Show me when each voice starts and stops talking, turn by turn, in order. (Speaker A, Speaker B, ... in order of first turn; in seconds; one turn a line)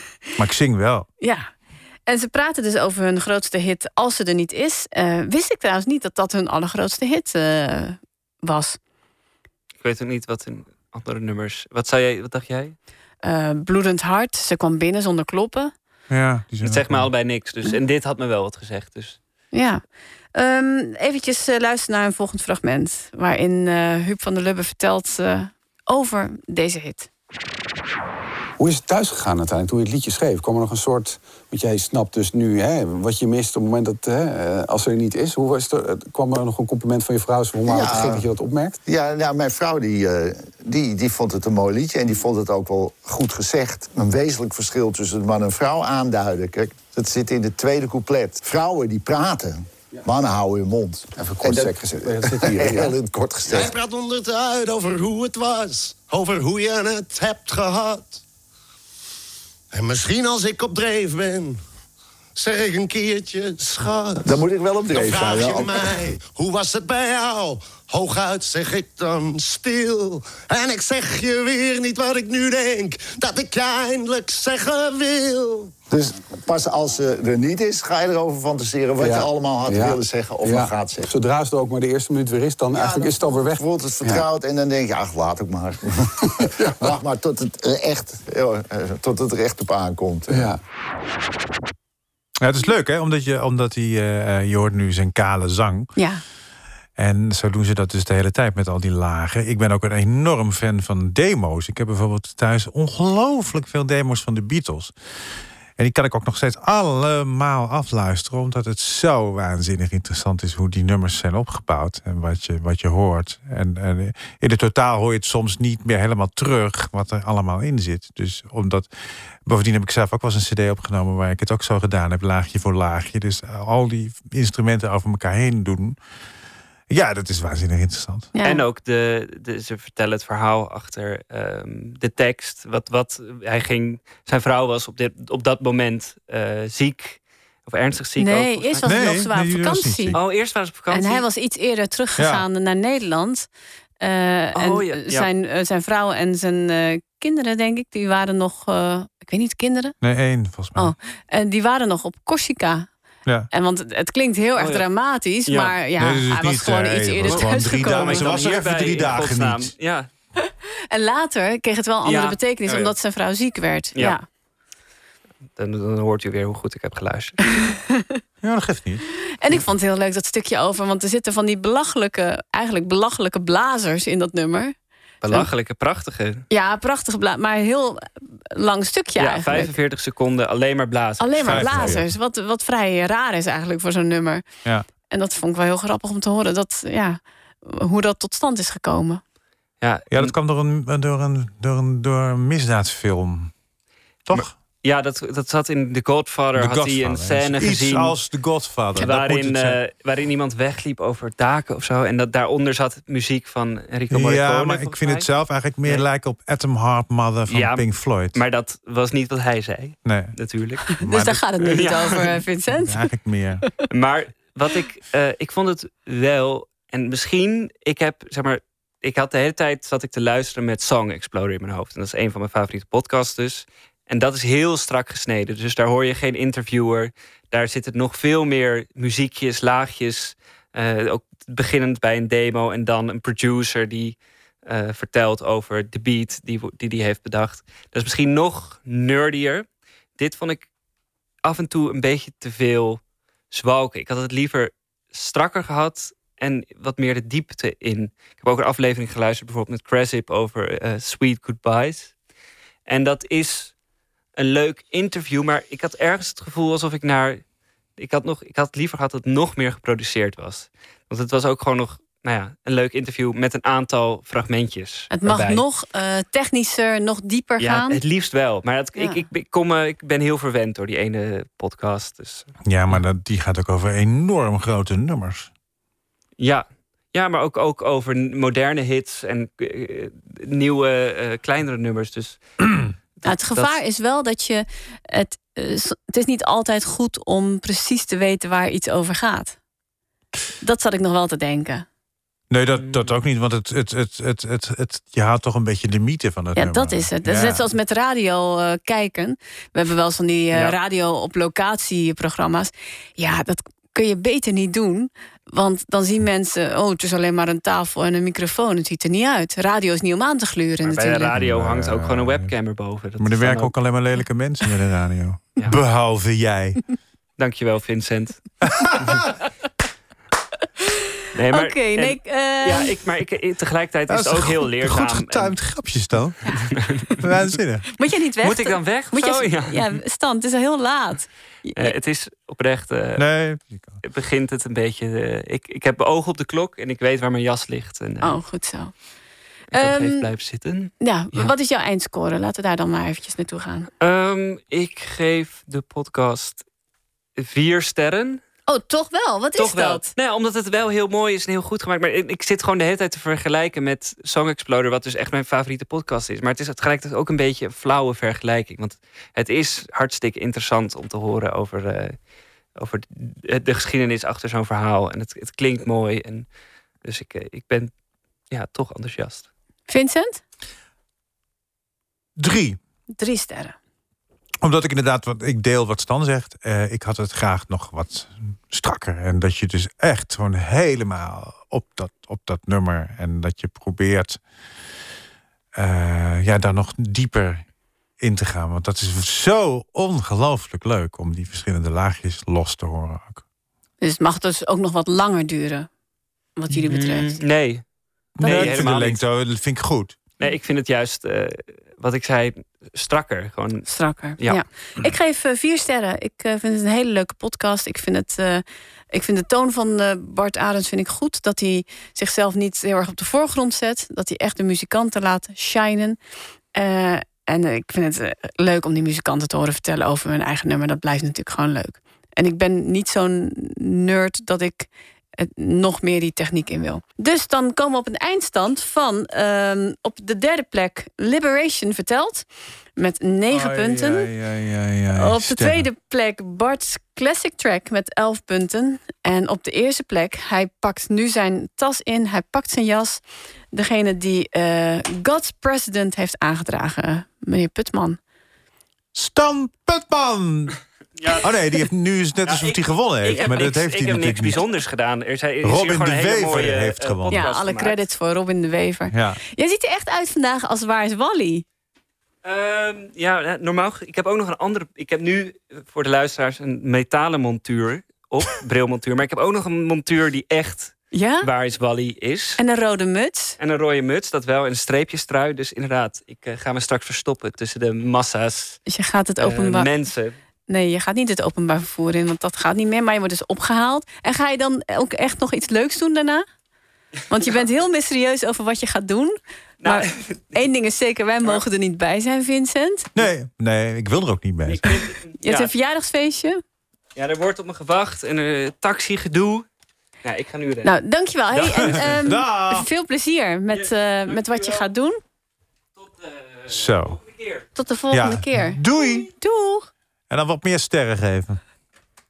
Speaker A: 0.4-1.1
Speaker B: 1.2-1.5
Speaker B: 2.1-8.8
Speaker C: 9.8-12.8
Speaker B: 13.2-15.7
Speaker A: 16.1-17.1
Speaker C: 16.6-19.2
Speaker B: 19.5-19.8
Speaker B: 20.4-27.1
Speaker D: 28.6-38.8
Speaker E: 37.7-38.3
Speaker E: 38.9-53.7
Speaker D: 51.2-53.0
Speaker F: 53.5-58.2
Speaker F: 59.7-61.6
Speaker F: 62.4-75.8
Speaker E: 64.2-65.9
Speaker E: 75.9-81.1
Speaker D: 79.0-84.3
Speaker E: 82.7-90.5
Speaker D: 86.4-86.9
Speaker D: 90.3-90.6
Speaker A: 92.4-95.9
Speaker B: 96.0-96.2
Speaker A: 97.0-104.9
Speaker A: 105.8-118.9
Speaker A: 119.5-126.0
Speaker A: 126.9-128.3
Speaker B: 128.3-128.6
Speaker C: 128.4-139.0
Speaker B: 138.2-140.2
Speaker A: 138.8-140.2
Speaker C: 140.1-141.2
Speaker B: 140.9-143.5
Speaker A: 142.2-142.4
Speaker B: 144.0-150.0
Speaker C: 144.5-145.3
Speaker A: 150.0-150.9
Speaker B: 150.8-152.9
Speaker B: 153.5-158.3
Speaker C: 154.6-154.9
Speaker C: 155.5-155.8
Speaker A: 156.0-159.7
Speaker C: 157.2-160.1
Speaker B: 160.4-164.2
Speaker C: 162.0-162.9
Speaker C: 165.6-167.5
Speaker B: 167.6-168.2
Speaker A: 168.4-169.0
Speaker B: 169.4-174.7
Speaker C: 175.2-176.4
Speaker B: 176.5-179.7
Speaker C: 179.2-182.0
Speaker B: 181.2-184.4
Speaker A: 181.4-182.1
Speaker B: 185.1-189.2
Speaker C: 189.8-190.3
Speaker A: 190.1-193.5
Speaker A: 194.3-194.5
Speaker C: 194.3-198.2
Speaker A: 196.6-199.8
Speaker C: 198.9-205.3
Speaker A: 204.1-208.4
Speaker C: 207.5-210.9
Speaker A: 210.1-210.3
Speaker A: 210.9-211.4
Speaker B: 210.9-213.1
Speaker C: 211.6-212.3
Speaker A: 212.7-213.7
Speaker C: 213.9-239.7
Speaker C: 240.2-240.7
Speaker C: 241.4-252.1
Speaker C: 252.9-253.7
Speaker C: 254.4-257.4
Speaker C: 258.0-265.6
Speaker B: 265.1-268.0
Speaker C: 267.6-272.5
Speaker B: 269.0-269.2
Speaker A: 272.6-275.5
Speaker C: 276.4-282.4
Speaker C: 283.2-283.8
Speaker B: 283.2-289.6
Speaker B: 290.6-291.9
Speaker A: 292.5-297.7
Speaker C: 292.8-293.2
Speaker B: 296.6-311.3
Speaker C: 310.8-313.7
Speaker A: 311.4-312.5
Speaker A: 313.2-316.8
Speaker C: 317.4-318.4
Speaker A: 318.6-319.3
Speaker C: 321.4-325.6
Speaker B: 321.5-322.9
Speaker A: 324.1-326.5
Speaker C: 326.8-327.2
Speaker A: 327.2-327.9
Speaker B: 327.9-331.9
Speaker C: 328.4-330.0
Speaker C: 331.8-333.3
Speaker A: 333.2-334.0
Speaker C: 334.0-338.4
Speaker B: 338.2-338.9
Speaker C: 339.7-341.5
Speaker B: 339.8-340.3
Speaker B: 341.0-343.9
Speaker C: 344.0-346.6
Speaker C: 347.4-348.4
Speaker B: 348.7-350.1
Speaker C: 349.6-362.2
Speaker C: 362.8-366.5
Speaker C: 367.0-367.9
Speaker C: 368.5-369.5
Speaker B: 369.9-370.4
Speaker A: 372.4-372.8
Speaker B: 373.2-373.8
Speaker A: 374.6-384.4
Speaker A: 385.8-387.6
Speaker A: 388.2-393.4
Speaker B: 394.0-395.9
Speaker B: 396.6-397.4
Speaker C: 396.9-397.8
Speaker A: 398.4-400.2
Speaker C: 398.4-399.2
Speaker B: 398.4-398.9
Speaker C: 400.4-404.6
Speaker B: 403.9-416.2
Speaker B: 416.8-432.4
Speaker B: 433.0-434.3
Speaker A: 433.5-435.9
Speaker B: 435.1-443.2
Speaker B: 443.7-448.2
Speaker A: 449.1-450.8
Speaker C: 451.2-451.5
Speaker A: 451.4-454.6
Speaker C: 452.5-458.0
Speaker B: 453.3-453.6
Speaker A: 455.6-457.4
Speaker B: 457.3-461.6
Speaker A: 459.1-459.4
Speaker C: 462.4-472.6
Speaker B: 471.1-471.5
Speaker B: 472.6-473.6
Speaker C: 473.6-478.8
Speaker B: 478.9-479.9
Speaker C: 479.4-480.4
Speaker B: 480.7-486.4
Speaker B: 487.3-493.1
Speaker C: 489.8-490.6
Speaker A: 493.1-495.1
Speaker C: 494.6-495.7
Speaker B: 495.4-496.6
Speaker C: 497.2-499.7
Speaker C: 500.2-500.9
Speaker B: 500.8-505.2
Speaker C: 501.5-502.2
Speaker A: 501.8-502.9
Speaker C: 503.7-504.9
Speaker C: 506.0-507.7
Speaker A: 506.7-507.2
Speaker B: 507.8-509.9
Speaker A: 508.1-509.3
Speaker A: 510.3-511.6